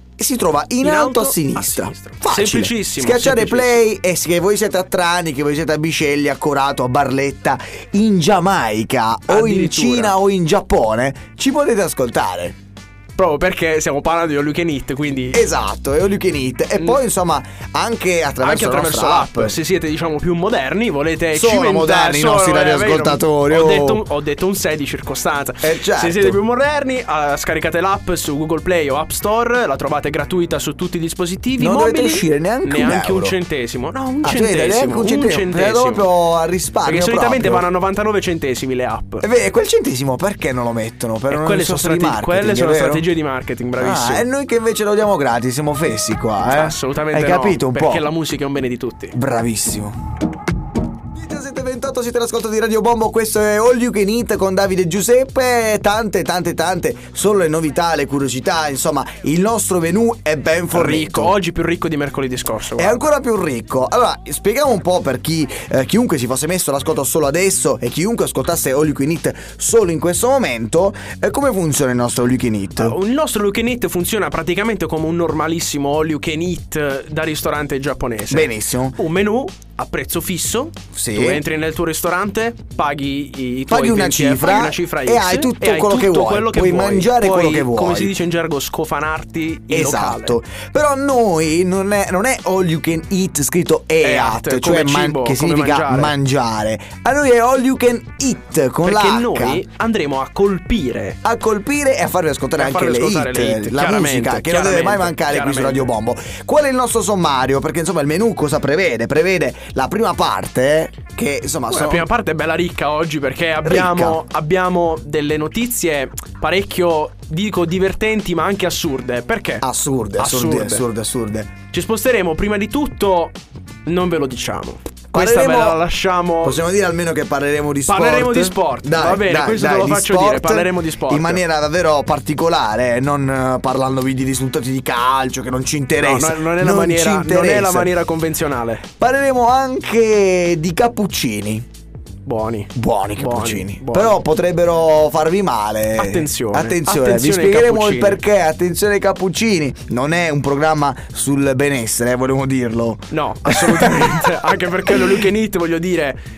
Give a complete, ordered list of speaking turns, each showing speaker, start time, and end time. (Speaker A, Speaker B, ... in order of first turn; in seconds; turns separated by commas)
Speaker A: 0.2-12.5, Speaker B: 0.8-3.8, Speaker B: 9.3-10.2, Speaker B: 13.2-15.4, Speaker A: 15.3-19.6, Speaker B: 18.4-36.1, Speaker A: 21.3-24.0, Speaker A: 25.6-26.4, Speaker A: 31.6-33.4, Speaker A: 34.2-37.6, Speaker B: 36.8-39.2, Speaker A: 39.2-43.0, Speaker B: 41.3-44.2, Speaker A: 43.8-48.1, Speaker B: 46.5-49.1, Speaker A: 49.1-49.9, Speaker A: 51.1-61.4, Speaker B: 60.7-63.0, Speaker A: 62.8-73.0, Speaker B: 72.7-90.4, Speaker A: 78.3-79.0, Speaker A: 80.9-81.4, Speaker A: 83.7-88.1, Speaker A: 89.7-99.6, Speaker B: 94.0-96.1, Speaker B: 98.8-101.2, Speaker A: 101.2-112.1, Speaker B: 102.5-105.9, Speaker B: 111.7-119.6, Speaker A: 113.6-114.2, Speaker A: 119.6-121.5, Speaker B: 120.2-120.8, Speaker B: 121.7-123.3, Speaker B: 123.8-126.6, Speaker A: 125.1-125.8, Speaker A: 126.4-137.9, Speaker B: 127.9-131.4, Speaker B: 136.0-138.8, Speaker A: 139.0-141.6, Speaker B: 142.2-144.2, Speaker A: 142.7-154.3, Speaker B: 146.0-148.2, Speaker B: 153.1-156.2, Speaker A: 154.9-155.2